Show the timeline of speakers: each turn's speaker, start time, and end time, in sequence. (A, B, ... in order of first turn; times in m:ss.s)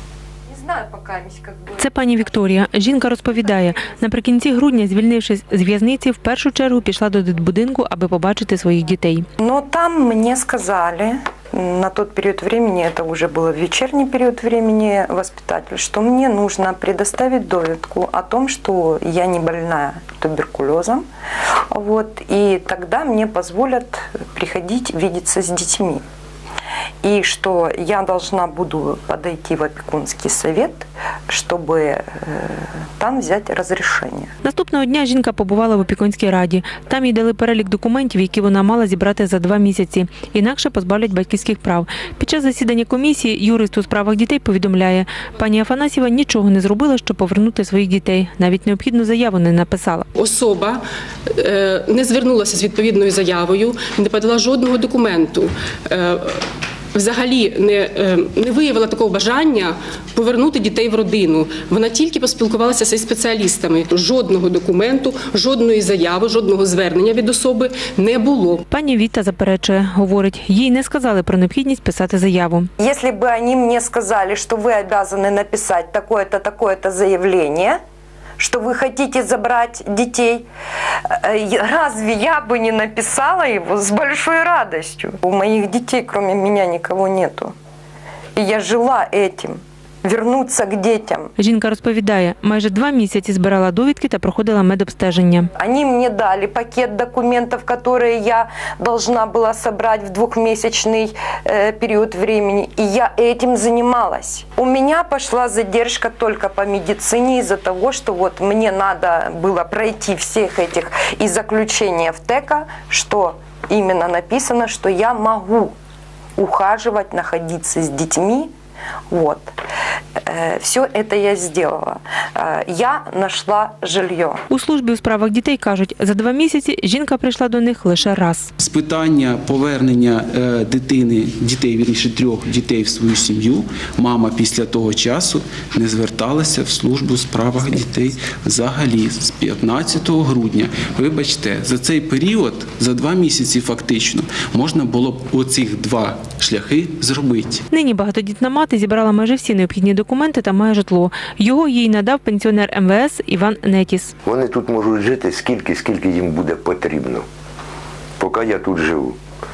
0:00.5-0:02.4 A
0:01.8-0:09.2 B
0:09.4-0:21.0 A
0:21.7-0:26.0 A
0:27.0-0:34.3 A
0:34.4-0:50.1 B
0:50.2-0:50.8 C
0:51.4-0:56.4 C
0:56.9-1:08.6 C
1:08.7-1:12.7 B
1:12.8-1:17.8 A
1:18.4-1:20.4 A
1:21.1-1:27.5 A
1:28.4-1:31.3 A
1:31.4-1:35.4 B
1:35.5-1:55.7 A
1:56.4-1:58.5 A
1:59.1-1:59.5 A
2:00.2-2:04.4 A
2:04.5-2:08.5 B
2:08.6-2:27.6 D
2:27.7-2:34.1 B
2:34.2-2:37.2 E
2:38.2-2:39.2 E